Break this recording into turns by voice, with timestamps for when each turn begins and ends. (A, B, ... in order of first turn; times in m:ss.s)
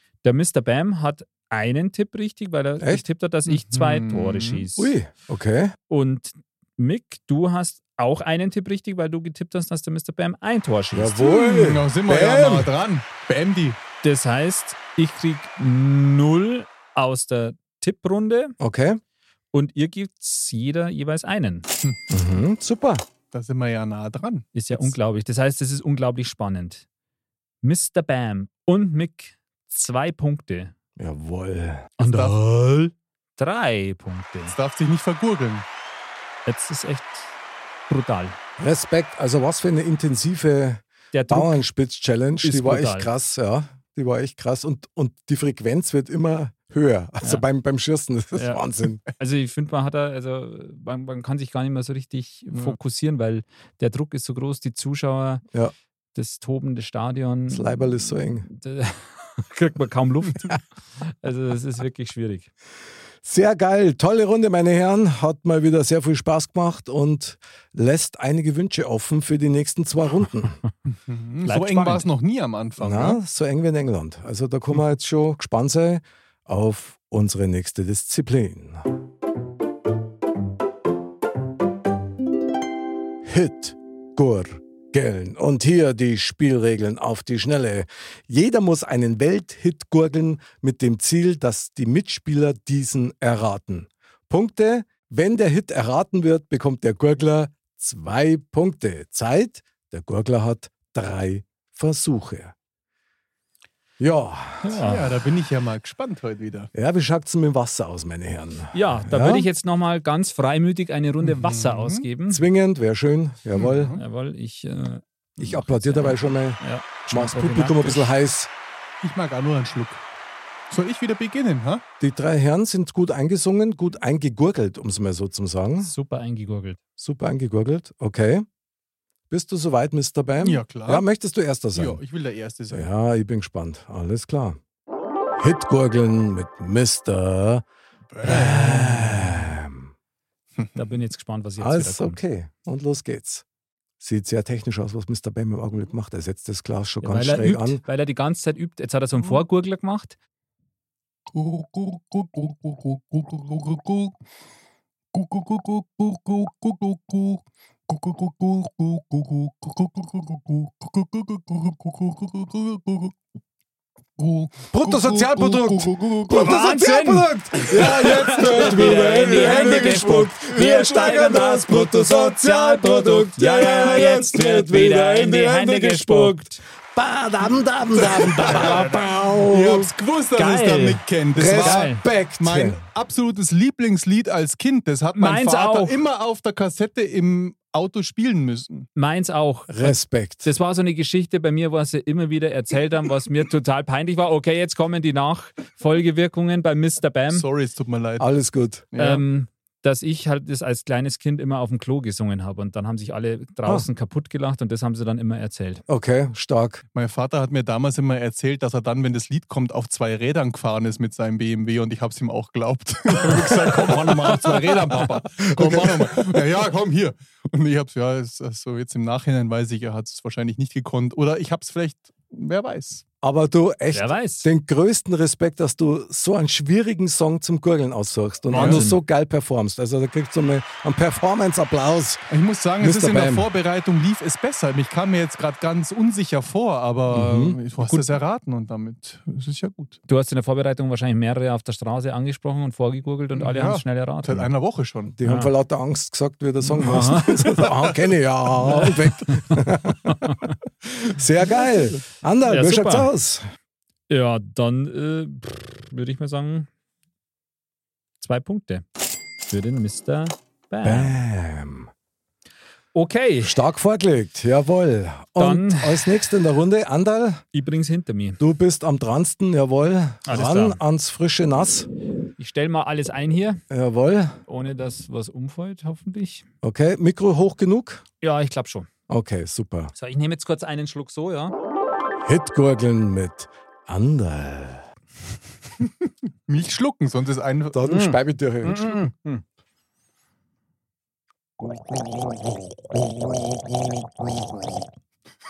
0:00.2-0:04.9 A
0:03.5-0:04.6 B
0:04.8-0:05.7 C
0:05.9-0:11.3 A
0:10.9-0:12.7 C
0:11.2-0:13.8 B
0:14.0-0:18.6 A
0:18.6-0:19.0 C
0:19.5-0:21.7 A
0:22.1-0:23.0 C
0:23.3-0:24.9 B
0:24.5-0:26.8 A
0:27.6-0:30.7 A
0:31.0-0:31.9 C
0:32.0-0:34.6 A
0:32.1-0:32.4 B
0:34.5-0:35.6 B
0:36.4-0:37.3 A
0:37.9-0:38.4 A
0:38.6-0:49.0 C
0:41.1-0:41.7 A
0:42.4-0:43.1 A
0:48.3-0:55.4 A
0:56.1-1:02.5 A
0:57.5-0:58.5 C
1:03.2-1:10.6 C
1:11.1-1:13.2 B
1:11.4-1:12.0 A
1:12.8-1:18.8 C
1:23.2-1:42.5 C
1:44.0-1:44.9 C
1:44.6-1:45.1 A
1:44.8-1:46.7 B
1:46.7-1:49.5 C
1:48.7-1:52.4 A
1:51.2-1:52.0 B
1:52.3-1:54.0 C
1:53.5-1:54.0 B
1:54.0-1:58.1 A
1:55.4-1:58.5 C
1:59.0-2:00.0 B
2:00.7-2:01.8 B
2:02.0-2:05.9 C
2:05.8-2:06.8 A
2:07.0-2:08.4 C
2:09.3-2:12.0 C
2:10.4-2:11.0 B
2:11.7-2:12.9 B
2:12.7-2:14.6 C
2:15.4-2:17.6 C
2:18.1-2:19.4 B
2:18.2-2:19.9 C
2:20.8-2:22.2 A
2:21.6-2:23.4 C
2:24.0-2:27.8 C
2:27.0-2:30.2 A
2:31.3-2:34.1 B
2:35.1-2:43.1 B
2:44.2-2:46.5 B
2:44.7-2:59.9 C
2:46.3-2:56.6 A
2:47.8-2:50.4 B
2:53.9-2:54.1 B
2:57.9-2:58.8 B
2:58.3-2:59.1 A
2:59.4-3:08.9 B
3:00.4-3:02.0 A
3:01.3-3:02.8 C
3:05.2-3:06.0 A
3:09.0-3:17.4 A
3:09.7-3:10.5 C
3:17.3-3:18.3 B
3:18.2-3:18.8 C
3:18.9-3:19.2 B
3:19.0-3:25.8 A
3:25.9-3:26.8 C
3:26.9-3:43.0 B
3:33.9-3:34.6 C
3:35.4-3:36.4 C
3:43.2-3:52.2 C
3:43.9-3:44.5 A
3:48.5-3:49.0 A
3:48.5-3:48.8 B
3:52.3-4:00.0 B
3:52.8-3:53.5 C
3:57.1-3:57.6 C
3:57.8-3:58.1 A
4:00.1-4:04.5 A
4:03.3-4:05.2 B
4:05.1-4:13.4 C
4:05.2-4:05.5 A
4:06.8-4:07.6 A
4:08.6-4:10.5 A
4:12.4-4:13.1 A
4:14.1-4:16.7 A
4:18.2-4:18.8 A
4:19.4-4:21.2 A
4:20.8-4:21.9 C
4:22.9-4:23.6 A
4:23.4-4:27.4 C
4:25.4-4:26.2 A
4:27.5-4:28.4 A
4:28.4-4:31.9 C
4:30.2-4:30.8 A
4:32.4-4:33.6 A
4:33.7-4:34.4 C
4:34.5-4:36.4 A
4:36.6-4:38.0 C
4:38.2-4:38.9 A
4:39.1-4:39.9 C
4:39.9-4:41.5 A
4:42.2-4:44.8 C
4:46.5-4:47.8 B
4:47.7-4:49.1 C
4:47.8-4:49.4 A